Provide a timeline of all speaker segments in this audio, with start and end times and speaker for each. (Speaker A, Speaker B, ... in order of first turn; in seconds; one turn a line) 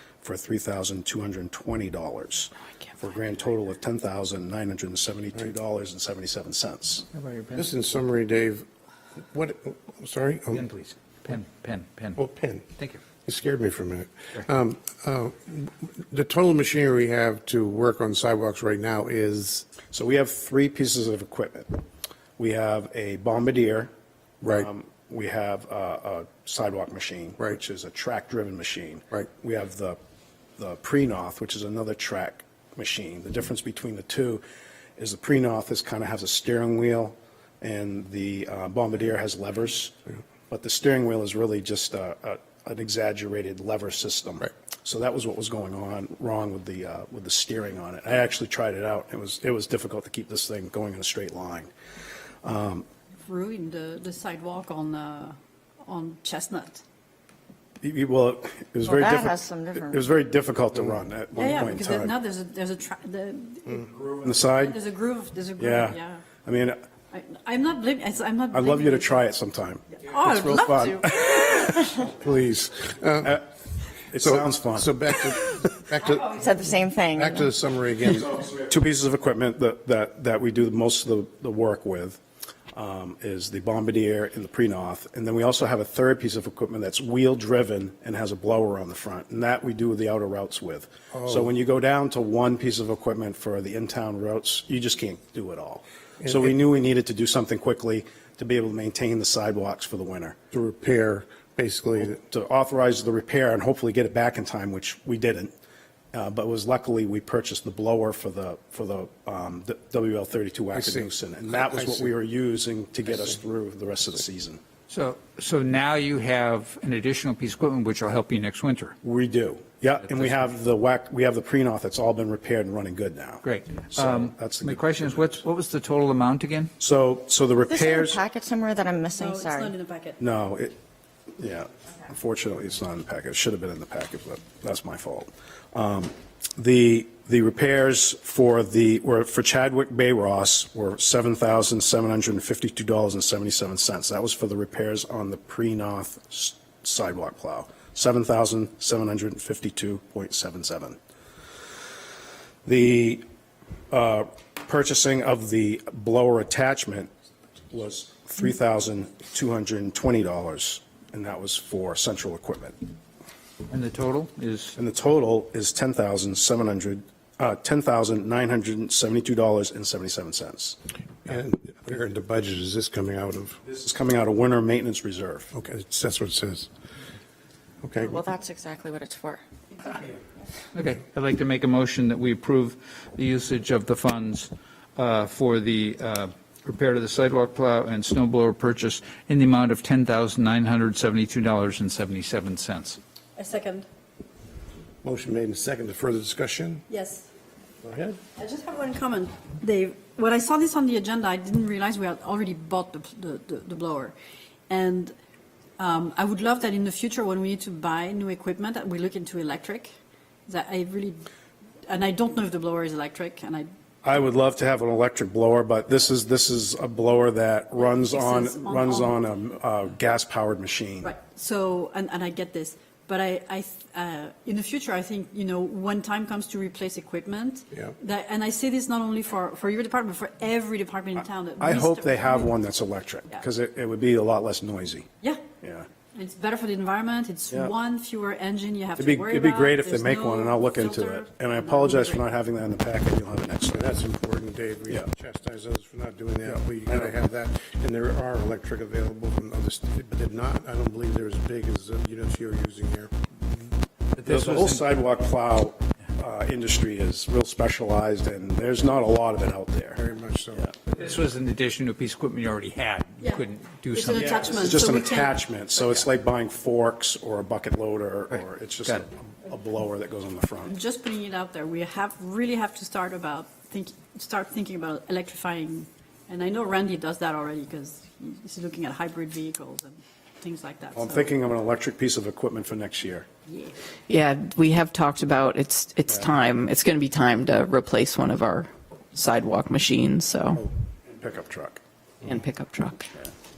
Speaker A: 0.2-7.0
Speaker B: 7.1-7.7
Speaker C: 7.5-10.6
Speaker B: 10.5-13.0
Speaker C: 12.2-12.6
Speaker C: 13.2-19.6
Speaker A: 19.9-21.8
Speaker A: 22.4-23.9
Speaker C: 24.4-24.7
Speaker A: 24.5-30.0
Speaker A: 30.6-34.4
Speaker A: 35.0-39.9
Speaker A: 40.5-51.7
Speaker A: 52.4-52.9
Speaker D: 53.2-55.3
Speaker D: 55.8-56.8
Speaker A: 57.8-62.1
Speaker E: 58.8-60.0
Speaker D: 61.4-66.2
Speaker A: 64.2-64.8
Speaker A: 65.6-66.8
Speaker D: 67.1-69.2
Speaker A: 68.5-71.9
Speaker D: 69.9-71.9
Speaker C: 72.1-73.4
Speaker A: 74.1-75.0
Speaker C: 74.2-76.4
Speaker E: 76.2-77.5
Speaker C: 77.2-78.5
Speaker A: 78.4-82.2
Speaker A: 82.7-100.4
Speaker C: 100.5-102.1
Speaker A: 102.0-105.5
Speaker A: 106.1-114.6
Speaker C: 110.7-111.1
Speaker C: 111.7-112.0
Speaker B: 114.9-119.0
Speaker A: 119.0-125.4
Speaker B: 120.0-120.5
Speaker B: 123.4-126.7
Speaker A: 126.8-128.2
Speaker E: 127.7-129.7
Speaker D: 129.2-130.2
Speaker A: 130.2-130.7
Speaker A: 131.4-151.0
Speaker A: 152.6-153.2
Speaker A: 153.9-157.1
Speaker A: 157.7-162.8
Speaker B: 163.7-164.8
Speaker A: 164.8-170.8
Speaker C: 171.2-173.6
Speaker A: 173.7-175.5
Speaker C: 175.5-176.7
Speaker C: 177.8-178.1
Speaker E: 178.0-179.4
Speaker B: 180.7-193.0
Speaker D: 193.4-193.8
Speaker C: 195.0-196.8
Speaker D: 196.9-197.2
Speaker C: 197.8-198.2
Speaker D: 198.4-204.1
Speaker D: 204.7-205.1
Speaker D: 205.8-209.9
Speaker D: 210.5-211.2
Speaker D: 211.9-213.7
Speaker A: 214.0-221.1
Speaker D: 217.8-219.1
Speaker D: 221.0-232.5
Speaker A: 231.6-235.1
Speaker A: 235.6-235.9
Speaker D: 236.1-242.2
Speaker A: 239.0-243.9
Speaker C: 243.7-253.1
Speaker B: 254.1-254.9
Speaker A: 254.2-260.0
Speaker C: 260.0-260.6
Speaker B: 260.8-264.8
Speaker D: 263.9-265.4
Speaker A: 264.1-270.7
Speaker D: 270.7-281.3
Speaker F: 273.5-274.2
Speaker A: 280.9-283.3
Speaker D: 283.5-283.8
Speaker F: 284.1-290.6
Speaker A: 290.6-291.8
Speaker F: 292.2-293.1